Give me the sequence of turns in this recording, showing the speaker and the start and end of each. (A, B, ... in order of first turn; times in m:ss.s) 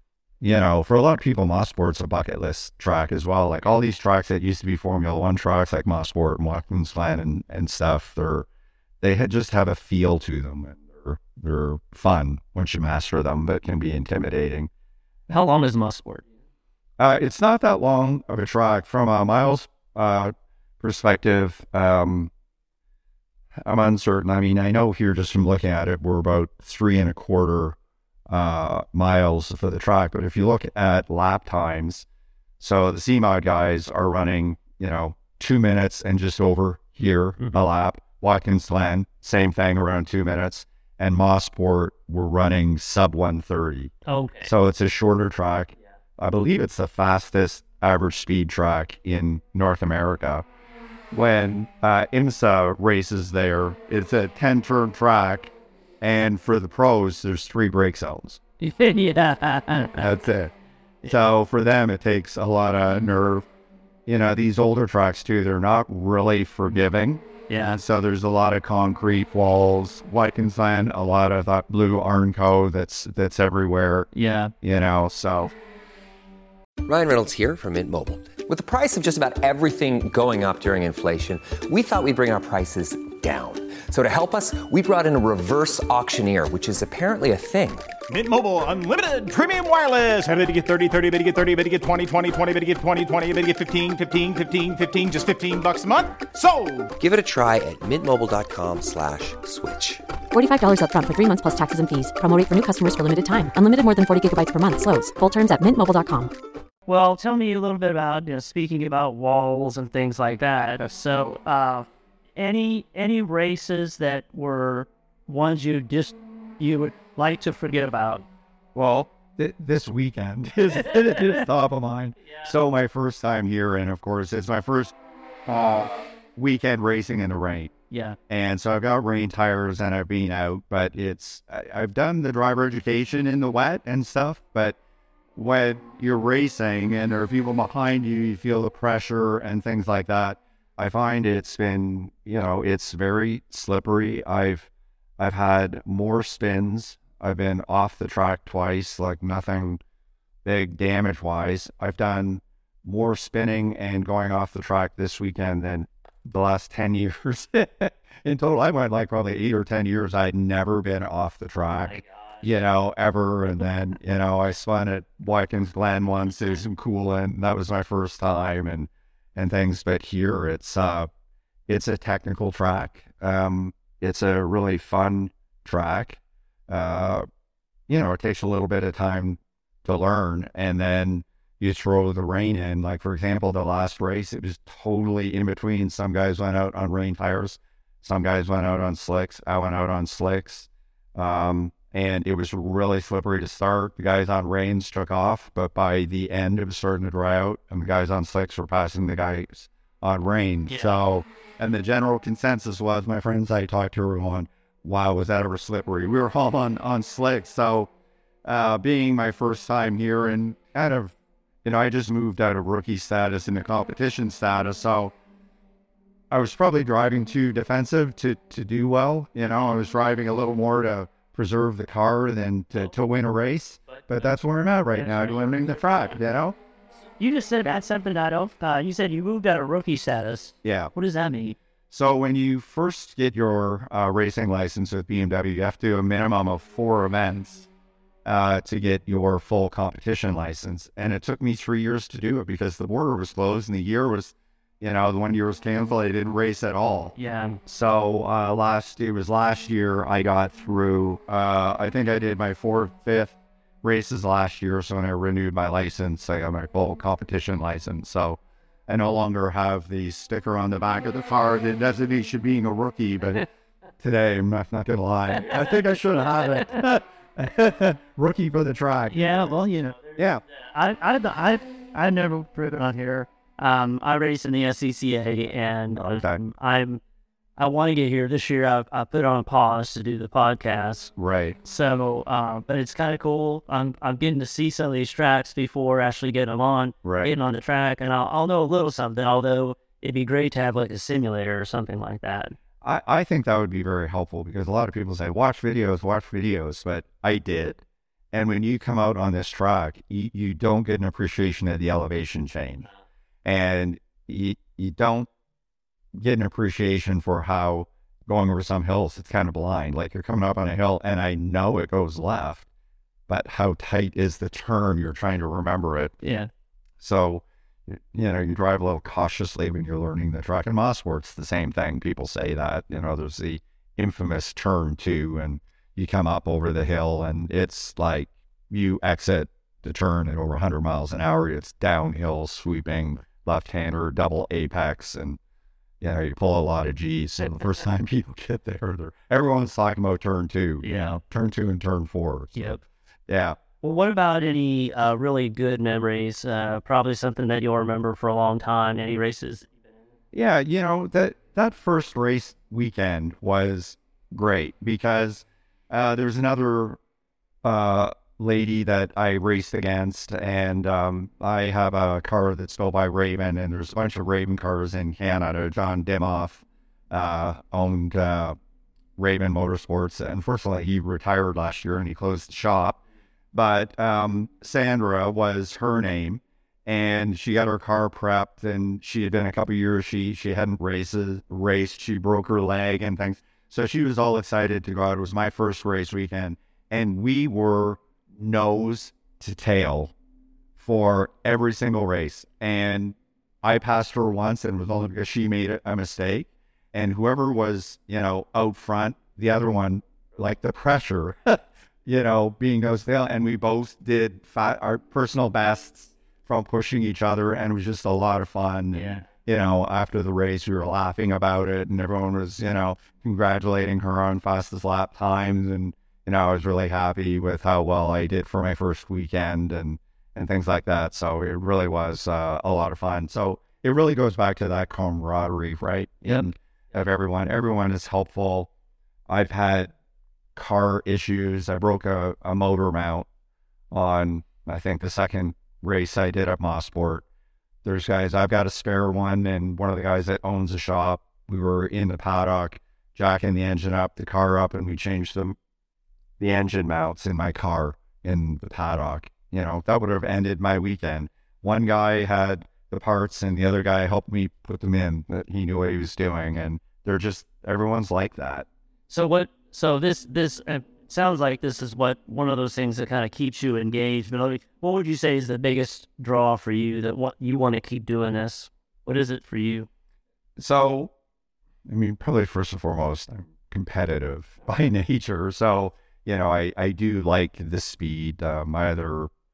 0:00.4-0:08.5 A
0:09.0-0:14.7 A
0:15.3-0:16.2 B
0:17.0-0:22.3 A
0:23.6-0:27.8 A
0:28.3-0:32.0 A
0:32.6-0:43.9 A
0:44.0-0:44.5 B
0:44.4-0:50.4 A
0:51.1-0:58.4 A
0:58.6-1:00.1 B
1:00.0-1:03.4 A
1:04.0-1:14.1 A
1:07.5-1:07.8 B
1:14.1-1:14.5 B
1:14.6-1:15.5 A
1:16.8-1:27.9 C
1:28.1-1:36.9 D
1:37.0-1:40.0 C
1:40.3-1:46.3 E
1:46.9-1:58.2 B
1:58.7-2:04.9 A
2:05.4-2:07.7 A
2:07.9-2:08.2 B
2:08.3-2:14.8 A
2:15.3-2:29.8 A
2:30.4-2:51.1 A
2:51.7-2:57.2 A
2:57.9-3:27.9 A
3:20.7-3:20.9 B
3:28.4-3:35.1 A
3:36.3-3:46.6 A
3:45.0-3:45.3 B
3:47.2-3:51.6 B
3:50.6-3:50.9 A
3:51.9-3:57.7 A
3:58.2-4:23.4 A
4:07.2-4:07.6 B
4:24.0-4:30.4 A
4:29.1-4:30.2 B
4:30.7-4:37.0 B
4:35.9-4:36.4 A
4:37.6-4:41.1 B
4:41.2-4:41.6 A
4:41.6-4:52.6 B
4:47.0-4:47.3 A
4:52.8-5:02.9 A
5:03.4-5:05.3 A
5:06.1-5:12.7 A
5:13.3-5:16.2 A
5:16.2-5:16.5 B
5:17.0-5:35.4 A
5:36.0-5:43.6 A
5:40.8-5:41.2 B
5:42.6-5:42.8 B
5:43.8-5:49.7 B
5:50.3-5:57.0 A
5:57.6-6:08.6 A
6:09.2-6:13.0 A
6:13.5-6:30.1 A
6:30.8-7:08.7 A
6:48.9-6:49.2 B
7:09.3-7:09.9 A
7:10.5-7:13.3 A
7:13.9-7:17.2 A
7:17.8-7:25.6 A
7:26.4-7:38.7 A
7:39.1-7:49.9 B
7:50.6-7:51.1 A
7:51.8-7:59.3 A